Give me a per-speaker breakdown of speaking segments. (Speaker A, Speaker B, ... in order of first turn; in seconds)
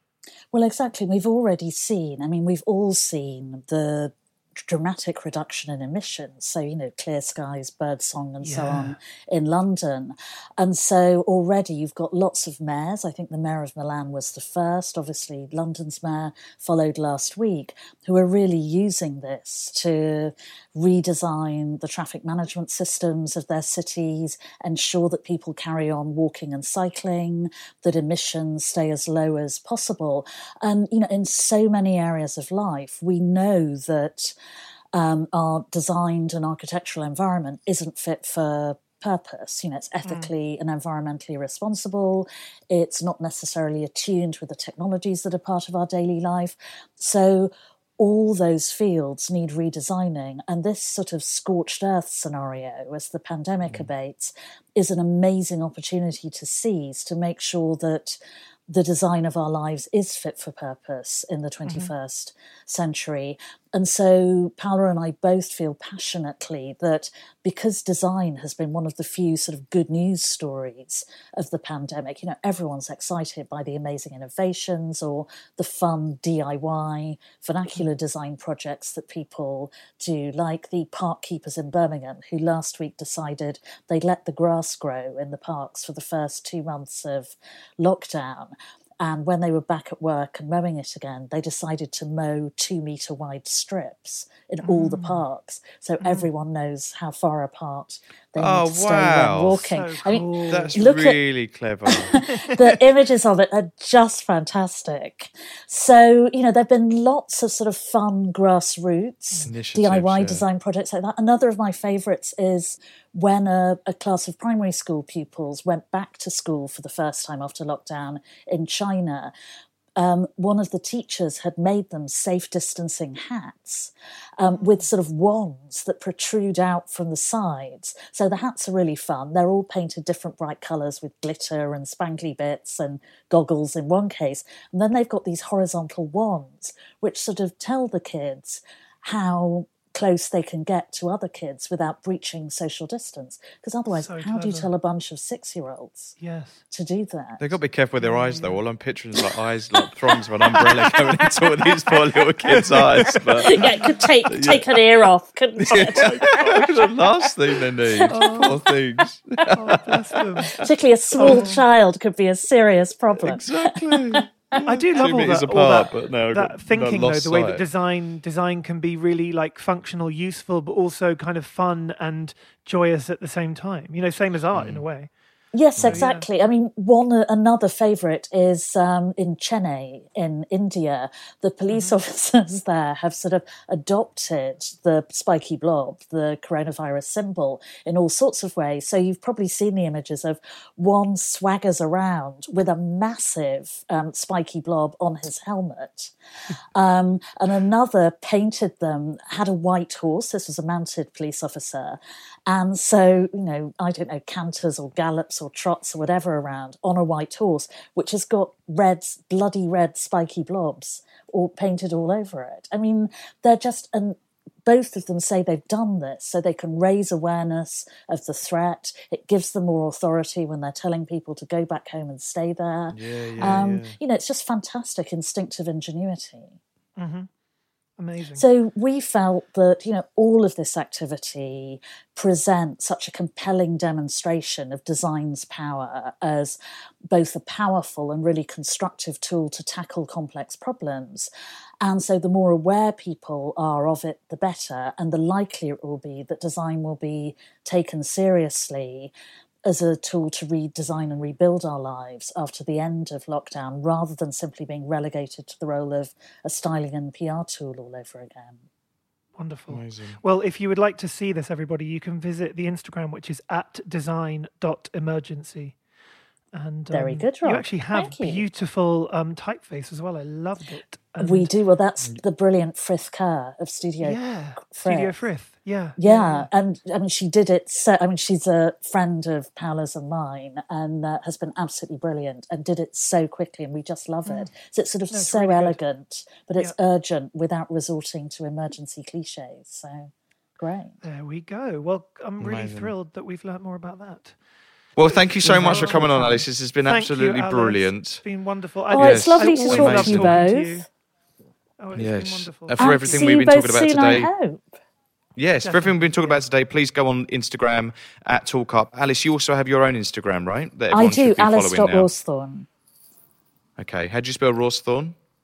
Speaker A: 0.5-34.3, 34.9-101.2, 102.1-119.3, 120.0-146.2, 146.7-147.6, 150.6-151.2, 153.4-156.4, 160.5-164.6, 175.5-196.1, 196.7-226.6, 228.3-236.6, 237.1-241.3, 241.8-249.1, 249.7-258.6, 266.9-268.4, 271.2-275.1, 276.0-291.0, 295.5-296.0, 298.9-300.8, 302.8-304.6, 310.9-312.7
Speaker B: 8.4-9.0, 40.0-40.3, 61.6-61.9, 94.6-95.2, 96.0-96.3, 99.5-100.8, 102.2-102.6, 124.5-124.9, 143.9-144.7, 146.2-146.6, 148.0-148.6, 152.5-153.9, 155.7-156.9, 158.1-158.7, 159.5-160.6, 161.2-161.6, 164.6-175.1, 175.8-176.3, 181.7-182.0, 223.4-223.6, 227.0-227.3, 228.0-228.4, 259.4-265.8, 266.5-271.5, 274.0-276.5, 285.1-285.8, 291.0-294.4, 295.1-300.9, 301.8-303.3, 305.6-306.4
Speaker C: 98.4-99.6, 100.5-102.2, 109.4-110.4, 147.4-153.6, 154.3-154.7, 155.6-160.0, 161.2-161.5, 163.2-167.6, 174.5-174.8, 222.9-224.0, 259.7-260.2, 292.4-292.9, 295.0-298.2, 298.9-300.4, 301.9-304.3, 305.4-312.1, 313.8-315.1